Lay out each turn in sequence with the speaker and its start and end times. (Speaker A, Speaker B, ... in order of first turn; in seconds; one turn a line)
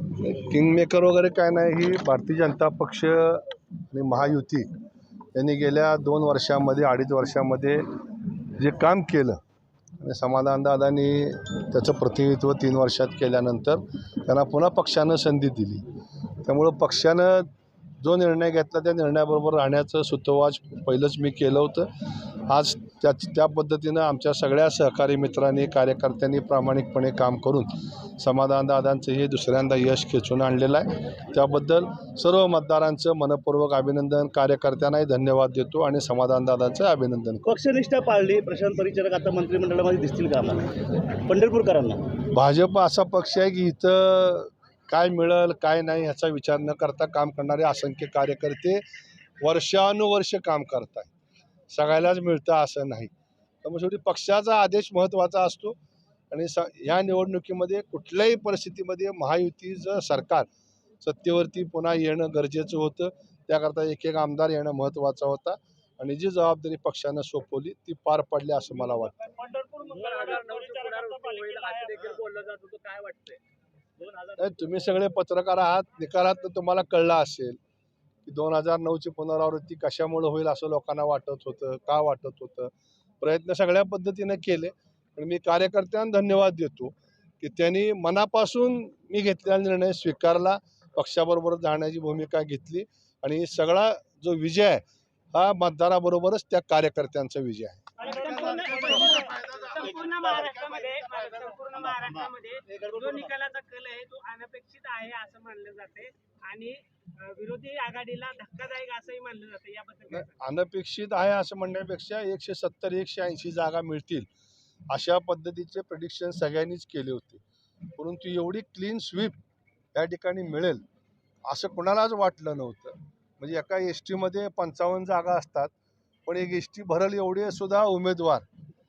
Speaker A: 0.2-4.7
Speaker A: 5.3-7.8
Speaker A: 8.6-9.4
Speaker A: 10.0-15.8
Speaker A: 16.4-37.4
Speaker B: 37.4-42.1
Speaker A: 42.3-48.8
Speaker A: 49.4-51.1
Speaker A: 51.7-53.1
Speaker A: 53.6-55.8
Speaker A: 56.3-60.5
Speaker A: 61.0-69.3
Speaker B: 69.6-73.4
Speaker C: 71.1-71.4
Speaker B: 74.0-74.5
Speaker A: 74.4-77.6
Speaker A: 78.2-94.8
Speaker A: 95.3-97.8
Speaker C: 98.0-110.4
Speaker B: 102.7-103.3
Speaker A: 110.1-114.3
Speaker A: 114.9-117.4
Speaker A: 118.0-119.3
Speaker A: 119.9-120.8
Speaker A: 121.5-125.7
Speaker A: 126.2-128.4